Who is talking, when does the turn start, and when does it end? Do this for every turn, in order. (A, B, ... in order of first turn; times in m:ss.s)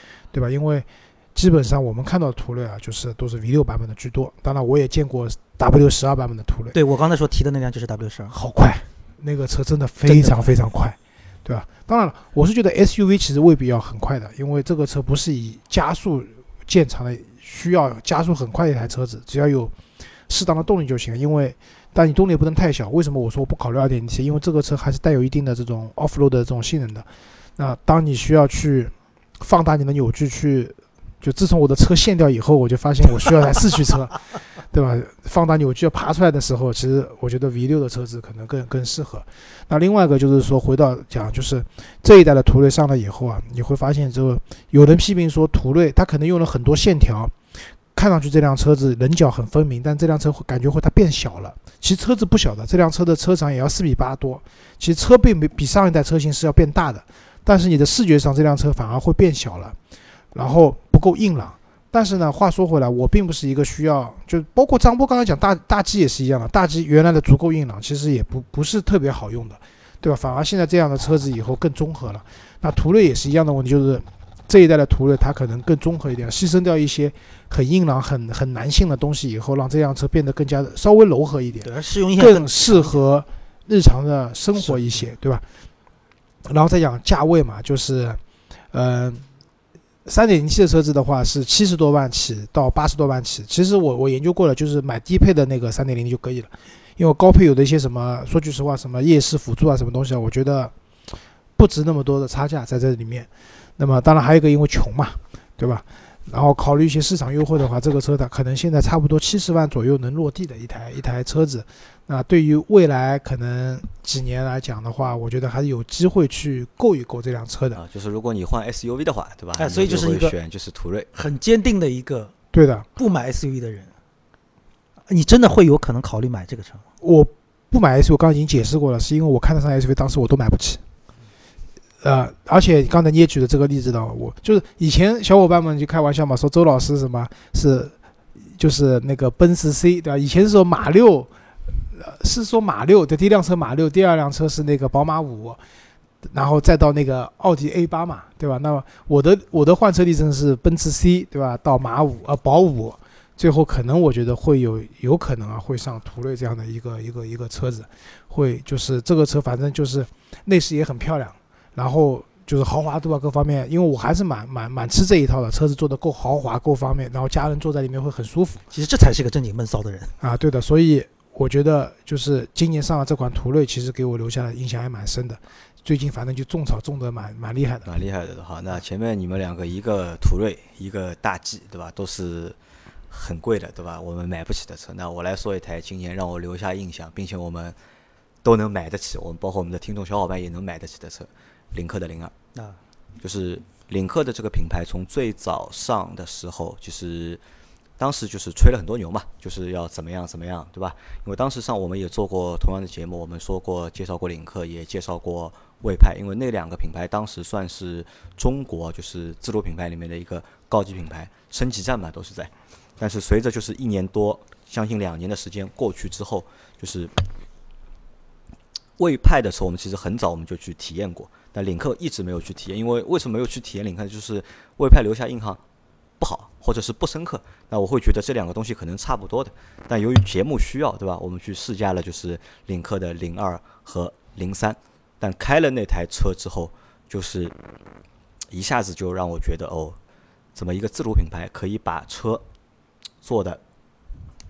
0:00.3-0:06.8 A
0:06.7-0:08.3 B
0:08.3-0:19.8 A
0:10.1-0:10.6 B
0:20.3-0:47.4 A
0:47.9-0:59.8 A
1:00.3-1:25.4 A
1:21.6-1:23.0 B
1:24.6-1:25.0 B
1:26.4-1:28.2 A
1:28.7-1:29.3 A
1:30.0-1:40.7 A
1:41.6-1:57.8 A
1:57.7-2:01.1 C
1:59.6-2:00.4 B
2:01.1-2:02.3 B
2:02.5-2:02.9 A
2:03.0-2:03.9 B
2:05.1-2:06.8 B
2:07.0-2:10.8 A
2:12.0-2:21.3 A
2:21.9-2:25.6 A
2:26.2-2:48.6 A
2:48.7-2:50.2 B
2:50.2-2:57.9 A
2:57.8-3:02.6 C
3:03.1-3:07.8 C
3:08.4-3:12.3 C
3:13.2-3:17.4 C
3:18.0-3:37.1 C
3:39.0-3:45.6 C
3:46.2-3:57.6 C
3:58.5-4:00.0 C
4:00.6-4:02.4 C
4:03.2-4:03.6 C